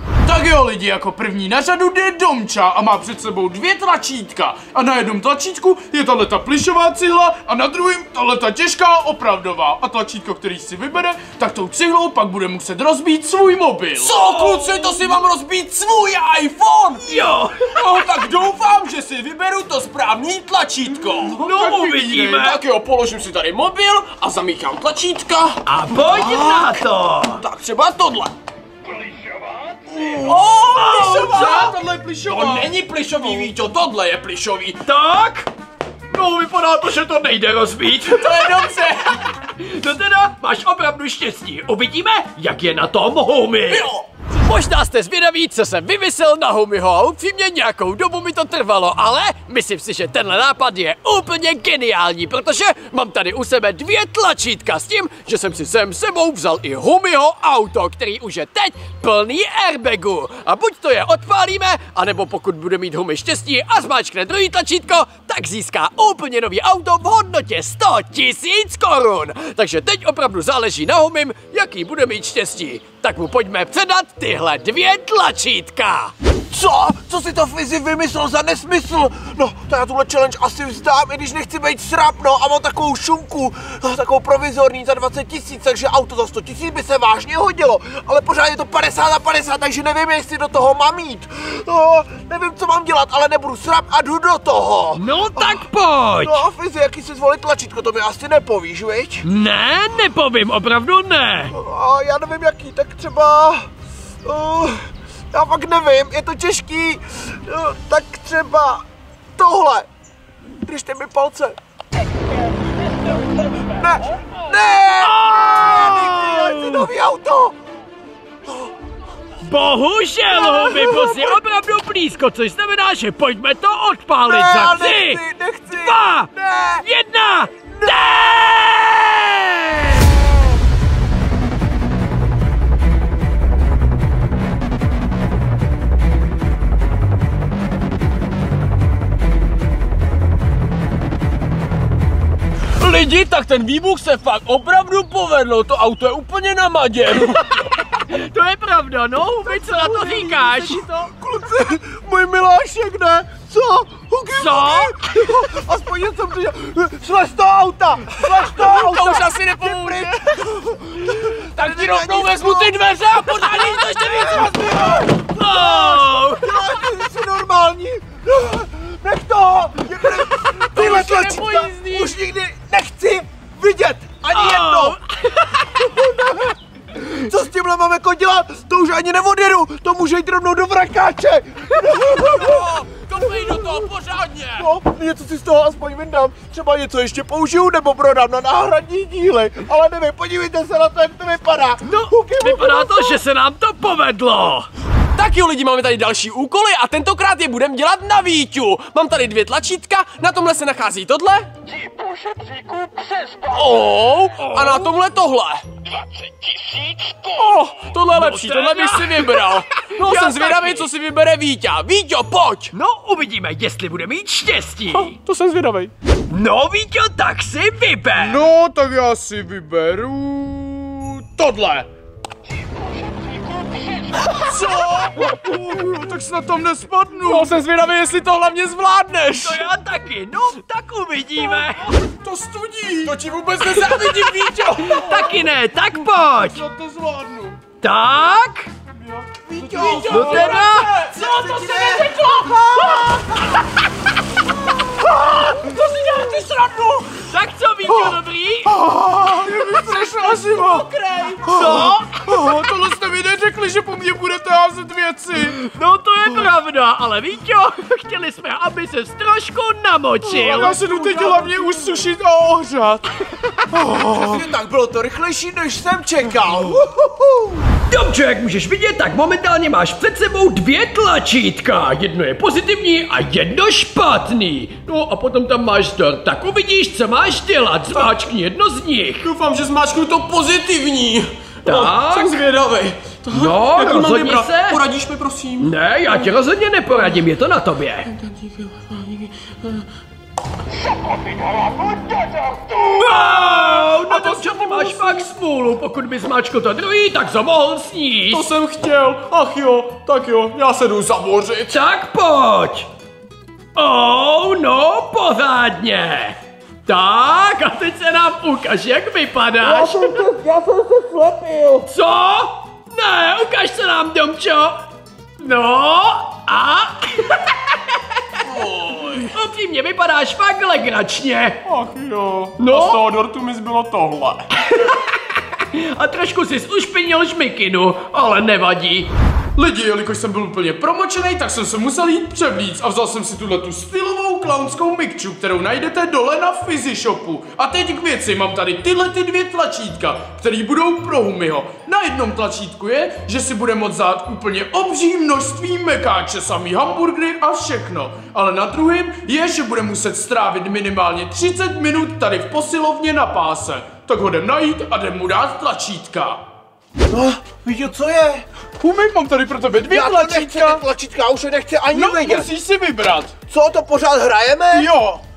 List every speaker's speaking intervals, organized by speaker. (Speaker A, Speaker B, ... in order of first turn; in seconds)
Speaker A: 0.2-14.1, 21.3-22.4, 30.0-30.3, 30.9-33.5, 207.4-209.5, 210.2-210.8, 215.1-215.6, 218.2-221.9, 224.4-227.6, 231.9-234.1, 234.9-235.4, 236.4-237.6, 238.9-240.6, 241.2-241.6, 248.7-250.9, 251.5-255.6, 260.2-263.1, 263.7-264.4, 321.9-322.6, 329.6-356.4, 358.8-360.8, 361.9-363.3, 364.7-365.2
Speaker B: 14.0-21.4, 22.4-28.3, 29.1-34.8, 38.0-39.2, 43.7-44.1, 142.8-147.5, 158.2-160.4, 161.1-165.1, 170.7-172.1, 181.9-184.7, 195.2-201.5, 203.2-205.7, 207.1-212.7, 214.9-215.9, 227.3-229.6, 233.0-235.0, 239.6-242.6, 245.6-247.1, 249.7-251.5, 260.5-262.1, 279.2-285.7, 288.1-289.8, 291.4-292.6, 293.4-295.3, 298.3-301.8, 318.4-319.3, 321.7-324.5
Speaker C: 14.2-15.0, 17.1-17.8, 21.4-22.6, 25.6-27.4, 30.7-31.7, 34.9-35.5, 36.1-38.7, 39.2-76.1, 95.0-96.4, 99.2-101.5, 115.0-116.9, 119.4-126.3, 126.8-130.2, 147.8-150.9, 154.3-155.0, 165.2-166.4, 174.3-175.9, 191.9-194.7, 204.4-204.9, 208.4-210.8, 212.7-215.2, 216.3-218.4, 229.4-231.9, 234.8-236.6, 237.8-238.7, 239.8-240.9, 245.2-246.3, 247.1-248.8, 251.4-252.2, 255.4-260.8, 267.9-279.3, 281.6-282.4, 283.3-284.8, 285.6-288.1, 292.7-298.5, 301.7-302.9, 303.8-310.3, 311.9-314.8, 315.4-317.4, 319.2-321.6, 322.7-323.0, 324.7-329.1
Speaker D: 76.5-95.7, 96.2-99.2, 101.5-103.7, 104.2-108.8, 109.4-109.9, 110.7-111.6, 113.7-117.6, 118.5-118.7, 120.3-121.4, 124.2-126.9, 127.7-128.0, 149.5-175.0, 175.8-183.9, 184.6-193.2, 239.5-240.3, 240.9-243.2, 264.0-267.6, 309.6-311.9, 357.1-358.4, 359.8-362.5, 363.5-364.9